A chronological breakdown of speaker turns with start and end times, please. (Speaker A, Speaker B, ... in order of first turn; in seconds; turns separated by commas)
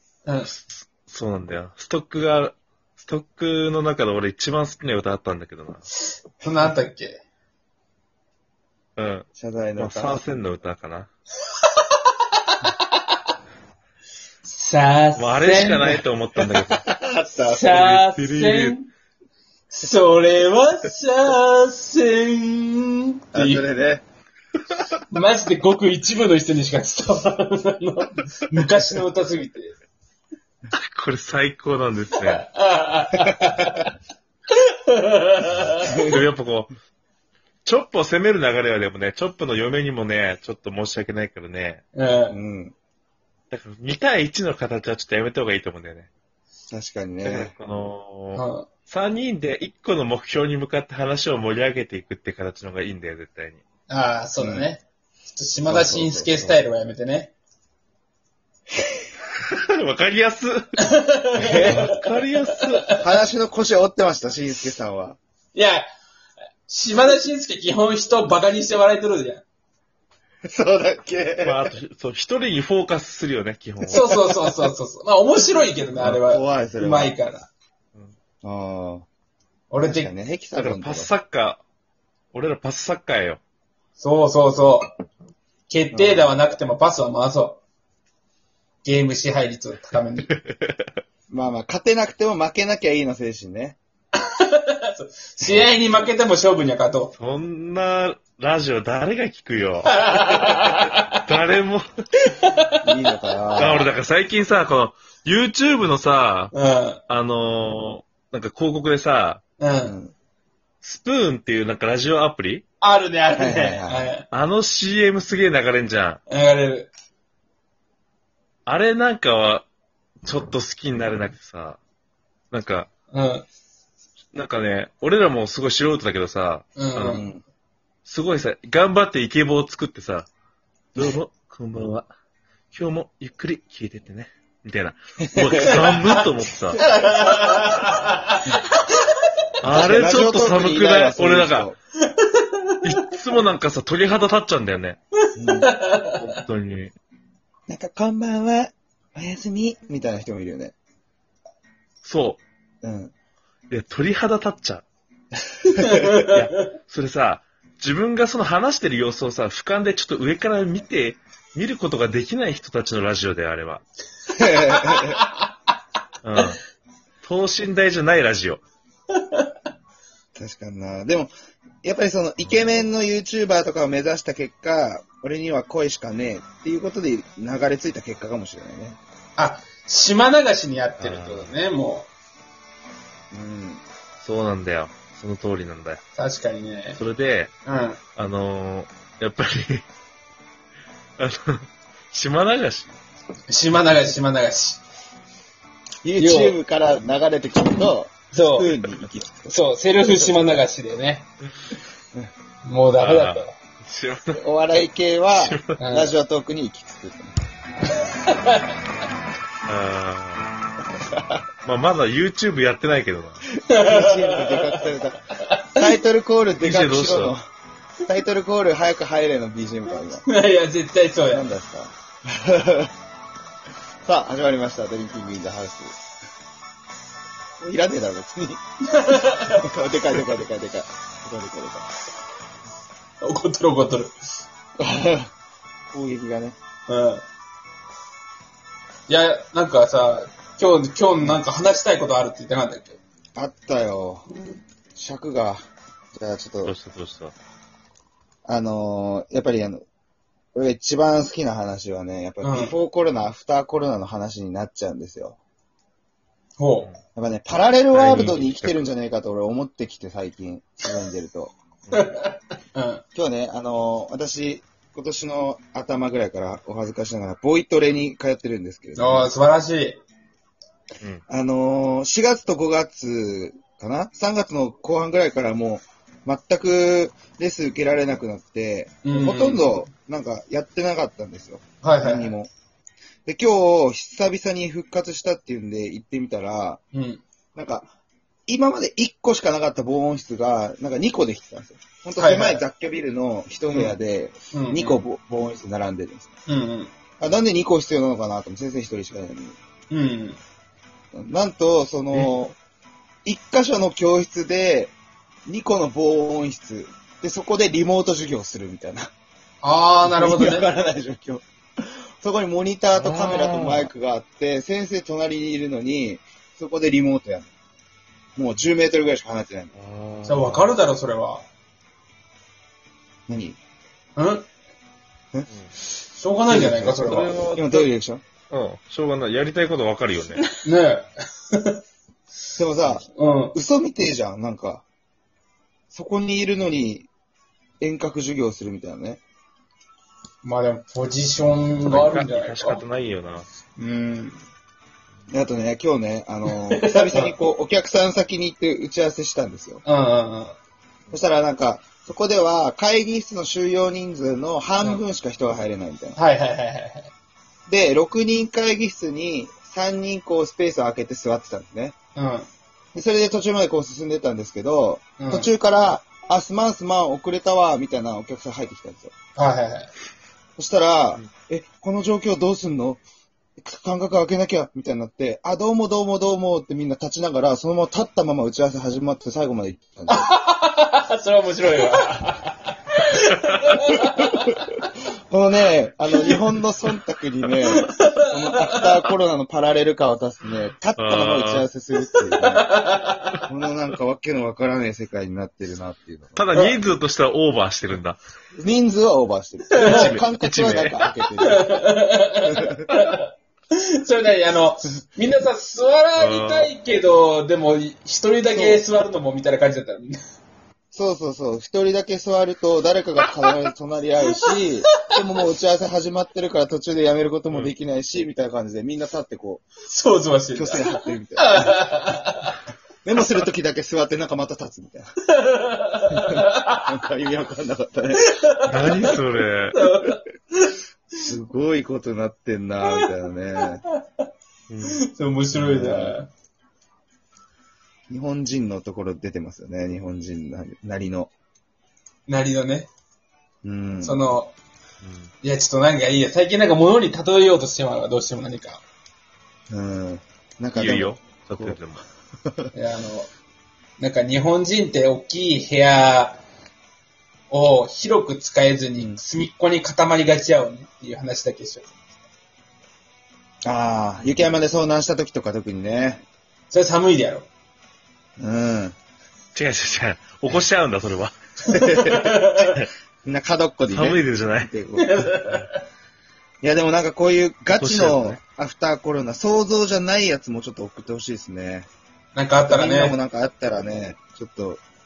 Speaker A: 0.2-0.5, Speaker B: 0.5-5.8, Speaker A: 6.4-7.2, Speaker B: 9.0-11.1, Speaker C: 9.3-10.2, Speaker A: 11.7-12.8, Speaker A: 14.4-16.0, Speaker B: 15.2-16.8, Speaker C: 16.7-17.7, Speaker A: 17.4-18.9, Speaker B: 17.7-18.8, Speaker A: 19.7-23.6, Speaker C: 23.3-24.0, Speaker A: 25.1-29.7, Speaker B: 30.7-32.5, Speaker A: 32.2-33.9, Speaker A: 34.5-35.9, Speaker C: 35.8-36.2, Speaker B: 36.0-36.7, Speaker B: 37.6-41.8, Speaker A: 41.9-42.4, Speaker C: 42.3-42.7, Speaker B: 43.5-46.1, Speaker C: 46.7-47.5, Speaker B: 47.2-53.6, Speaker A: 48.3-48.7, Speaker A: 53.9-57.3, Speaker C: 54.4-54.7, Speaker C: 55.7-56.6, Speaker B: 59.5-60.6, Speaker A: 60.8-61.9, Speaker C: 61.4-61.9, Speaker B: 61.6-63.0, Speaker A: 62.6-63.0, Speaker C: 63.0-65.2, Speaker A: 65.5-65.8, Speaker A: 66.7-69.4, Speaker C: 70.4-71.6, Speaker B: 71.4-74.2, Speaker C: 73.8-74.2, Speaker A: 73.9-77.5, Speaker C: 76.0-77.2, Speaker C: 78.4-79.0, Speaker A: 79.7-80.1, Speaker C: 79.8-81.1, Speaker B: 80.5-81.6, Speaker B: 82.3-83.4, Speaker A: 84.0-84.9, Speaker A: 85.7-87.6, Speaker C: 85.9-86.3, Speaker A: 88.8-90.3, Speaker B: 90.5-90.8, Speaker C: 91.3-93.8, Speaker A: 94.2-97.1, Speaker C: 95.4-96.1, Speaker B: 97.2-101.8, Speaker A: 99.9-101.2, Speaker A: 102.2-102.8, Speaker C: 102.8-103.9, Speaker B: 103.6-106.5, Speaker A: 106.5-107.0, Speaker B: 107.1-109.4, Speaker A: 109.6-109.9, Speaker C: 109.8-110.1, Speaker B: 110.8-112.6, Speaker A: 112.8-114.2, Speaker C: 113.3-114.1, Speaker B: 114.3-116.2, Speaker A: 116.3-116.9, Speaker B: 118.7-119.6, Speaker B: 120.2-121.8, Speaker B: 122.5-122.9, Speaker A: 123.1-123.5, Speaker B: 124.3-127.2, Speaker A: 126.8-127.2, Speaker C: 127.0-127.4, Speaker B: 128.1-130.3, Speaker B: 130.9-132.1, Speaker B: 132.7-136.8, Speaker C: 135.2-135.9, Speaker A: 136.8-139.5, Speaker B: 139.6-141.7, Speaker C: 139.7-141.8, Speaker A: 142.0-143.0, Speaker B: 142.8-145.0, Speaker A: 145.2-146.2, Speaker C: 145.3-145.7, Speaker B: 146.0-146.9, Speaker C: 147.7-150.7, Speaker B: 152.0-152.4, Speaker C: 152.8-153.1, Speaker B: 153.7-154.8, Speaker A: 155.7-156.6, Speaker C: 155.8-156.2, Speaker B: 156.3-163.8, Speaker C: 164.3-165.2, Speaker A: 164.5-165.4, Speaker B: 166.2-166.6, Speaker B: 167.2-168.6, Speaker A: 169.2-169.5, Speaker C: 170.3-171.3, Speaker C: 171.8-179.0, Speaker A: 179.4-182.1, Speaker B: 181.0-181.6, Speaker C: 183.3-183.8, Speaker B: 184.2-186.0, Speaker A: 186.2-187.0, Speaker B: 186.9-187.5, Speaker A: 187.7-188.0, Speaker B: 188.2-189.8, Speaker B: 191.2-192.9, Speaker A: 193.5-194.8, Speaker C: 196.0-200.6, Speaker A: 196.2-196.6, Speaker A: 198.3-198.7, Speaker A: 199.5-201.3, Speaker A: 202.6-203.5, Speaker B: 203.0-204.4, Speaker C: 204.3-207.4, Speaker B: 205.3-205.8, Speaker A: 205.8-206.1, Speaker A: 207.9-208.8, Speaker B: 209.7-210.4, Speaker B: 211.6-213.4, Speaker C: 213.6-217.5, Speaker A: 213.7-215.8, Speaker B: 216.6-217.3, Speaker C: 218.1-220.2, Speaker A: 220.2-221.5, Speaker C: 221.3-222.9, Speaker C: 224.0-226.0, Speaker C: 227.6-228.6, Speaker A: 228.9-229.7, Speaker C: 229.3-231.9, Speaker A: 233.2-234.1, Speaker C: 234.8-235.3, Speaker C: 235.9-236.6, Speaker A: 236.9-237.2, Speaker A: 239.1-243.0, Speaker C: 243.3-244.3, Speaker C: 244.9-245.6, Speaker C: 246.1-246.7, Speaker B: 246.6-247.3, Speaker C: 248.4-249.8, Speaker C: 250.5-255.4, Speaker A: 252.4-252.7, Speaker A: 256.6-256.9, Speaker C: 257.1-261.5, Speaker B: 257.9-258.8, Speaker A: 261.9-263.0, Speaker C: 263.1-269.3, Speaker A: 268.9-270.0, Speaker C: 271.3-282.5, Speaker A: 279.0-279.7, Speaker A: 281.8-282.3, Speaker C: 283.2-286.8, Speaker A: 286.9-287.2, Speaker C: 287.5-287.9, Speaker C: 288.5-296.3, Speaker A: 292.2-292.6, Speaker A: 294.5-295.0, Speaker A: 296.5-296.9, Speaker C: 297.2-299.6, Speaker A: 299.9-300.4, Speaker C: 301.1-302.6, Speaker C: 303.2-304.9, Speaker C: 305.4-309.1, Speaker A: 309.6-310.7, Speaker C: 310.0-317.5, Speaker B: 312.9-313.9, Speaker C: 318.4-319.7, Speaker B: 319.7-320.8, Speaker A: 320.2-321.4, Speaker C: 323.3-323.6, Speaker A: 324.1-324.5, Speaker A: 326.1-327.4, Speaker C: 326.5-328.2, Speaker B: 326.9-327.9, Speaker B: 328.5-330.5, Speaker A: 330.6-331.8, Speaker C: 332.6-334.8, Speaker A: 333.1-333.6, Speaker C: 335.9-337.1, Speaker C: 337.8-339.2, Speaker A: 340.4-342.8, Speaker B: 341.9-343.5, Speaker A: 343.8-344.4, Speaker C: 345.3-349.8, Speaker A: 346.5-347.3, Speaker A: 349.8-350.6, Speaker C: 351.1-356.2, Speaker A: 356.1-357.1, Speaker C: 357.7-361.9, Speaker A: 362.1-362.5, Speaker C: 362.9-369.1, Speaker A: 365.2-365.5, Speaker A: 369.3-369.9, Speaker C: 370.6-373.0, Speaker C: 373.6-380.3, Speaker A: 380.1-384.7, Speaker B: 383.1-383.7, Speaker C: 384.1-384.6, Speaker C: 385.3-392.7, Speaker A: 387.7-388.9, Speaker B: 391.0-391.7, Speaker A: 392.4-393.4, Speaker C: 393.5-396.5, Speaker B: 396.4-398.2, Speaker C: 398.6-401.8, Speaker A: 399.8-400.1, Speaker B: 399.8-401.0, Speaker A: 401.4-410.2, Speaker C: 402.4-402.8, Speaker B: 406.1-406.7, Speaker C: 408.5-408.8, Speaker C: 410.9-419.7, Speaker A: 419.9-422.6, Speaker C: 420.5-421.9, Speaker C: 423.0-425.1, Speaker A: 425.3-426.9, Speaker C: 426.1-428.3, Speaker A: 428.2-429.1, Speaker B: 428.6-429.8, Speaker A: 429.7-430.8, Speaker C: 431.2-433.8, Speaker B: 434.7-435.0, Speaker A: 434.9-436.3, Speaker C: 435.5-436.2, Speaker C: 438.1-441.3, Speaker A: 442.3-442.9, Speaker C: 443.6-444.2, Speaker A: 444.0-444.5, Speaker B: 445.0-445.3, Speaker A: 445.4-448.8, Speaker C: 449.7-451.8, Speaker B: 450.7-452.0, Speaker A: 452.7-453.3, Speaker A: 454.0-456.4, Speaker A: 457.5-461.9, Speaker C: 463.6-466.2, Speaker A: 466.7-467.5, Speaker C: 468.4-468.9, Speaker B: 469.5-471.4, Speaker A: 471.7-472.8, Speaker C: 471.7-472.5, Speaker C: 473.2-475.2, Speaker B: 473.9-474.7, Speaker A: 475.0-475.8, Speaker C: 476.6-481.9, Speaker B: 477.7-478.4, Speaker A: 482.3-483.1, Speaker C: 482.7-484.8